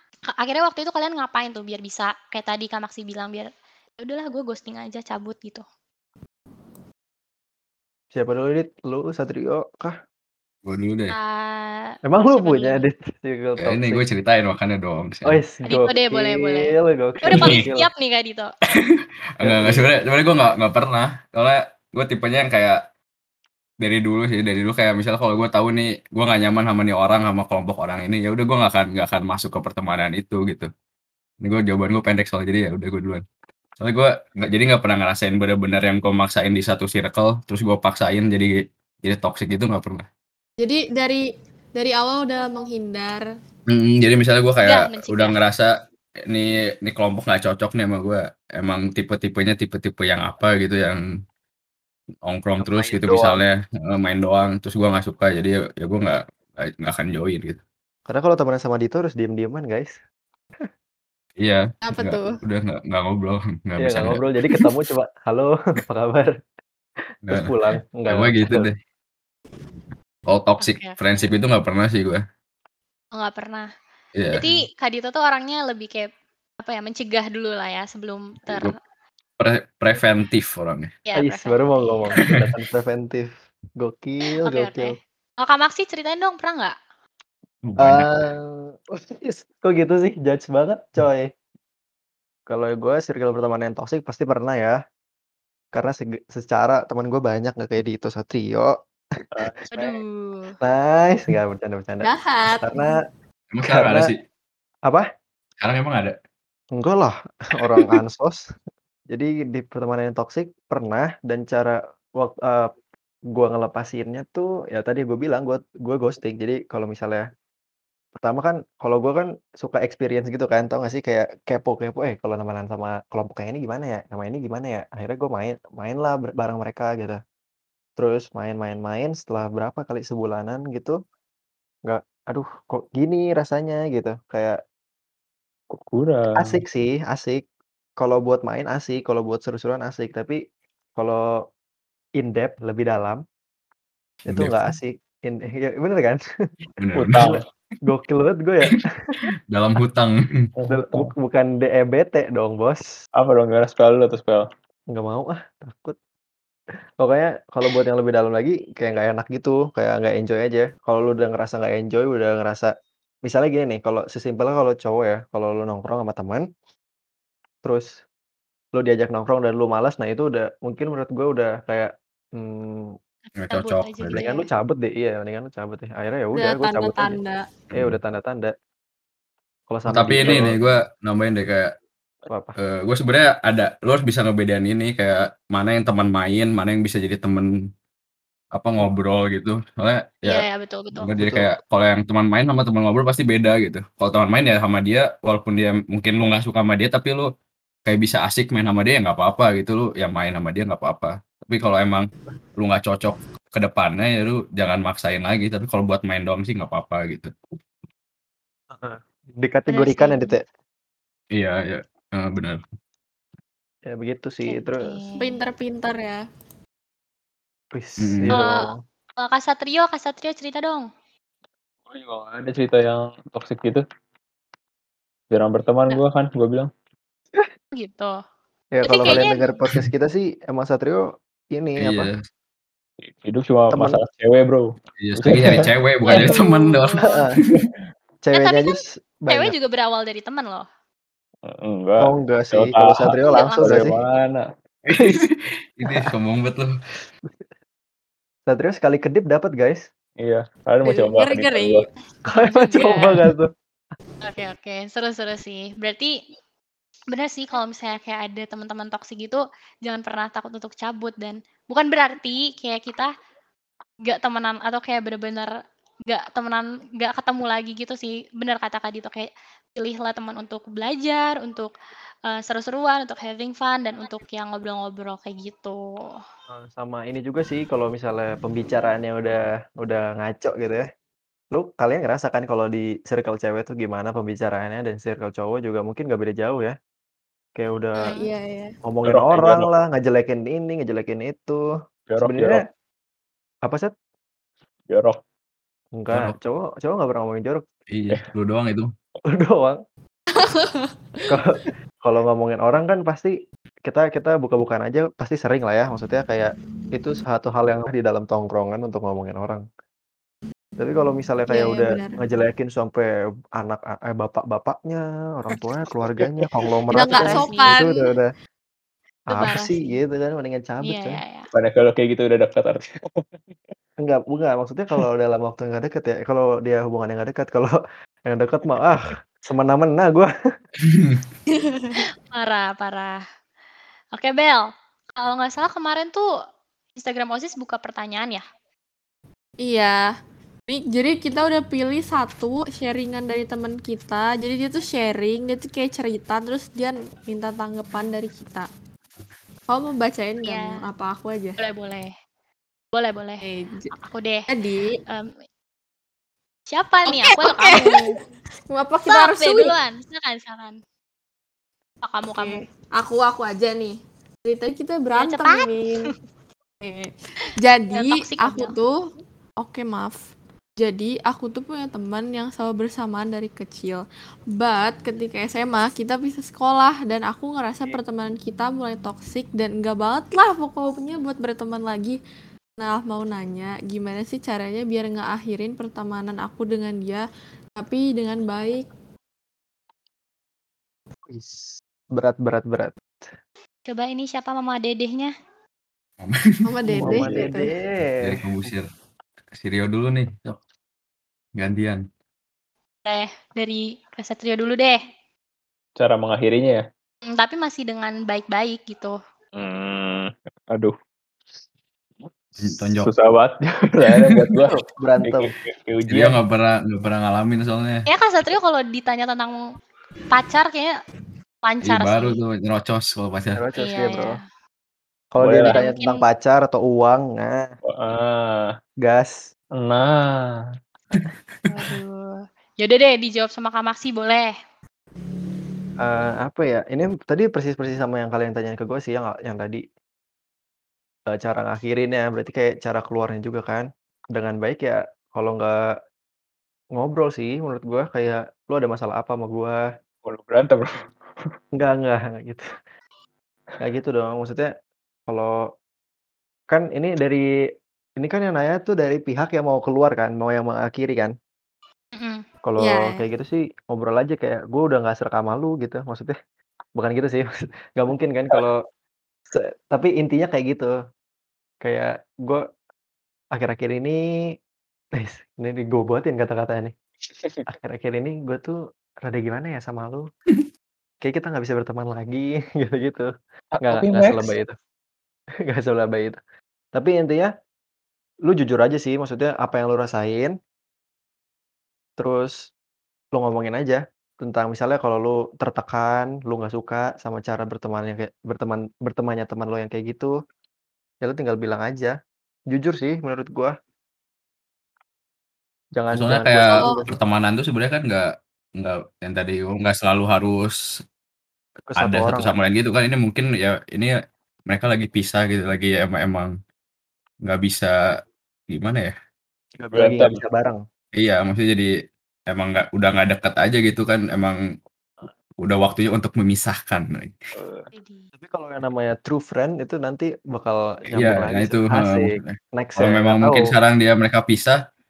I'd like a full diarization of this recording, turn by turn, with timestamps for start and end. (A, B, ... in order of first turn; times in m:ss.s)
0:00.3-0:05.6 A
0:08.1-0:09.9 B
0:10.6-0:11.2 C
0:11.1-0:12.8 A
0:12.0-0:14.0 B
0:13.6-0:15.4 C
0:15.2-0:17.9 B
0:15.6-0:18.5 A
0:17.3-0:17.6 C
0:19.4-0:22.8 C
0:19.4-0:19.9 B
0:23.8-0:30.7 C
0:31.4-0:33.2 C
0:33.8-0:40.0 C
0:40.6-0:41.2 D
0:41.7-0:43.2 D
0:43.7-0:45.7 C
0:44.6-0:45.4 A
0:46.3-0:51.0 C
0:52.2-0:57.6 C
0:52.8-0:53.1 E
0:52.8-0:53.4 B
0:58.1-1:00.0 B
1:01.4-1:04.7 C
1:01.8-1:02.4 D
1:03.8-1:06.3 B
1:07.3-1:08.8 C
1:07.3-1:08.7 B
1:10.3-1:12.2 C
1:10.6-1:11.3 A
1:13.1-1:13.7 A
1:14.2-1:14.6 C
1:14.3-1:16.1 A
1:16.6-1:18.7 A
1:18.5-1:18.7 C
1:19.4-1:20.9 C
1:21.0-1:22.2 A
1:21.2-1:24.9 B
1:22.2-1:22.4 C
1:24.4-1:26.8 A
1:27.6-1:28.2 C
1:27.8-1:31.3 B
1:32.5-1:34.8 B
1:35.7-1:39.9 B
1:39.3-1:39.8 E
1:39.7-1:40.6 A
1:40.6-1:42.9 B
1:42.0-1:42.9 D
1:43.5-1:44.2 C
1:43.6-1:44.1 B
1:45.6-1:46.1 C
1:46.7-1:48.4 B
1:49.1-1:52.7 B
1:53.3-1:57.2 B
1:58.2-2:07.2 B
2:08.0-2:11.0 B
2:11.8-2:14.6 B
2:15.7-2:16.6 E
2:16.4-2:17.4 B
2:18.0-2:20.4 B
2:21.0-2:21.2 B
2:22.2-2:23.2 B
2:24.2-2:24.7 C
2:24.3-2:26.2 B
2:26.8-2:27.4 C
2:26.9-2:27.4 E
2:27.2-2:28.8 B
2:29.5-2:30.5 C
2:30.6-2:31.1 E
2:30.7-2:32.8 B
2:33.2-2:34.4 E
2:34.9-2:36.0 B
2:37.0-2:42.7 B
2:43.2-2:46.4 B
2:47.6-2:47.9 B
2:48.8-2:52.9 B
2:53.3-2:54.5 A
2:53.4-2:54.2 C
2:54.1-2:57.2 B
2:56.4-2:57.4 D
2:57.7-2:58.5 B
2:57.7-2:58.0 C
2:59.7-3:00.6 B
2:59.9-3:01.7 C
3:02.3-3:02.5 B
3:02.6-3:07.5 C
3:08.5-3:17.3 C
3:10.2-3:11.1 A
3:11.2-3:11.6 B
3:17.8-3:27.3 C
3:28.7-3:30.4 B
3:29.7-3:30.3 A
3:31.3-3:32.6 C
3:33.9-3:35.0 B
3:34.4-3:35.4 A
3:35.2-3:36.2 D
3:37.7-3:38.8 B
3:38.0-3:38.4 C
3:38.3-3:38.7 A
3:39.2-3:40.9 A
3:41.9-3:43.8 E
3:45.3-3:46.7 E
3:47.7-3:48.2 A
3:48.7-3:52.1 B
3:48.8-3:49.6 A
3:49.1-3:49.9 C
3:51.8-3:52.2 C
3:53.0-3:55.7 E
3:55.0-3:57.6 C
3:56.0-3:57.2 A
3:57.1-3:57.4 B
3:58.2-3:59.5 B
3:58.3-3:58.8 A
3:59.3-4:00.6 A
4:01.5-4:05.1 E
4:02.0-4:04.0 B
4:03.2-4:03.8 A
4:04.9-4:06.8 C
4:08.5-4:09.9 B
4:10.2-4:11.8 E
4:10.8-4:11.8 D
4:12.3-4:13.5 B
4:12.3-4:13.3 A
4:14.2-4:16.2 A
4:17.1-4:23.1 A
4:24.0-4:25.5 A
4:26.1-4:31.7 A
4:32.3-4:36.2 A
4:36.5-4:40.9 B
4:41.5-4:46.8 B
4:47.6-4:48.1 B
4:48.1-4:48.7 D
4:48.8-4:51.6 B
4:49.0-4:49.7 E
4:52.1-4:52.6 E
4:52.2-4:52.6 B
4:53.6-4:53.9 B
4:54.9-4:55.2 E
4:56.0-4:57.6 B
4:57.9-4:58.9 C
4:59.3-4:59.8 B
5:00.4-5:00.9 D
5:01.3-5:03.3 B
5:03.8-5:09.6 B
5:10.8-5:18.3 B
5:11.5-5:12.2 D
5:16.2-5:16.4 E
5:16.9-5:18.0 D
5:16.9-5:17.8 A
5:19.3-5:19.7 A
5:19.3-5:21.2 B
5:20.8-5:21.5 A
5:21.5-5:23.2 E
5:24.0-5:27.8 B
5:28.3-5:30.3 B
5:30.8-5:31.2 C
5:31.6-5:32.0 D
5:32.0-5:33.2 A
5:34.1-5:36.3 A
5:37.0-5:38.4 A
5:39.6-5:40.0 D
5:40.7-5:48.7 D
5:49.7-5:51.6 D
5:50.4-5:50.7 A
5:51.6-5:52.1 A
5:52.9-5:53.4 A
5:53.4-5:53.9 D
5:53.9-5:54.5 A
5:54.5-5:55.0 D
5:55.0-5:55.3 A
5:56.7-5:58.1 A
5:57.1-5:58.1 D
5:58.7-5:59.7 D
5:59.1-6:00.8 A
6:02.0-6:02.6 A
6:02.3-6:06.1 D
6:05.2-6:06.0 A
6:06.8-6:09.0 D
6:07.9-6:08.7 A
6:09.6-6:10.2 D
6:10.8-6:14.0 D
6:14.6-6:22.2 D
6:22.8-6:27.2 D
6:27.8-6:28.9 D
6:31.3-6:33.3 B
6:33.9-6:35.3 A
6:36.2-6:36.4 C
6:36.6-6:37.7 D
6:37.0-6:37.3 E
6:37.1-6:38.7 B
6:38.2-6:38.9 C
6:39.6-6:40.6 C
6:41.6-6:42.0 C
6:43.0-6:45.0 A
6:46.0-6:46.8 E
6:47.3-6:49.2 A
6:49.6-6:50.9 E
6:52.6-6:56.4 E
6:52.6-6:53.1 C
6:54.1-6:54.6 C
6:54.6-6:55.5 B
6:56.1-6:58.1 C
6:58.1-6:59.6 A
7:00.3-7:01.0 A
7:01.6-7:02.4 A
7:01.8-7:03.6 C
7:03.5-7:04.4 B
7:03.8-7:04.4 A
7:05.3-7:07.6 B
7:05.4-7:05.8 E
7:05.7-7:06.2 A
7:07.9-7:08.7 E
7:09.0-7:09.4 B
7:09.8-7:10.6 E
7:11.1-7:12.0 C
7:11.7-7:14.5 A
7:16.0-7:19.8 B
7:21.3-7:25.8 B
7:27.0-7:29.8 B
7:30.2-7:31.5 E
7:31.7-7:32.6 B
7:33.8-7:34.7 B
7:35.3-7:35.5 B
7:36.7-7:37.4 B
7:38.2-7:41.3 B
7:42.1-7:42.4 A
7:42.6-7:46.3 B
7:42.8-7:43.2 D
7:47.0-7:48.8 B
7:49.5-7:50.9 B
7:51.8-7:52.6 B
7:53.5-7:54.2 B
7:55.2-7:56.9 B
7:57.3-7:57.6 E
7:57.7-8:00.2 B
8:01.2-8:03.3 B
8:03.8-8:04.6 E
8:03.8-8:04.7 B
8:05.7-8:06.4 B
8:06.9-8:07.5 B
8:08.5-8:10.5 B
8:12.2-8:12.6 B
8:13.3-8:20.3 B
8:21.2-8:22.1 B
8:22.7-8:23.7 B
8:26.0-8:27.0 B
8:26.1-8:30.8 C
8:26.8-8:27.1 D
8:31.9-8:32.5 B
8:32.0-8:34.1 C
8:34.7-8:36.5 C
8:37.4-8:37.9 C
8:38.7-8:39.1 C
8:39.8-8:40.8 B
8:39.9-8:40.4 E
8:41.1-8:41.9 C
8:42.5-8:44.6 C
8:45.6-8:47.3 C
8:47.5-8:47.9 E
8:47.9-8:48.3 A
8:48.4-8:53.7 B
8:51.1-8:54.8 C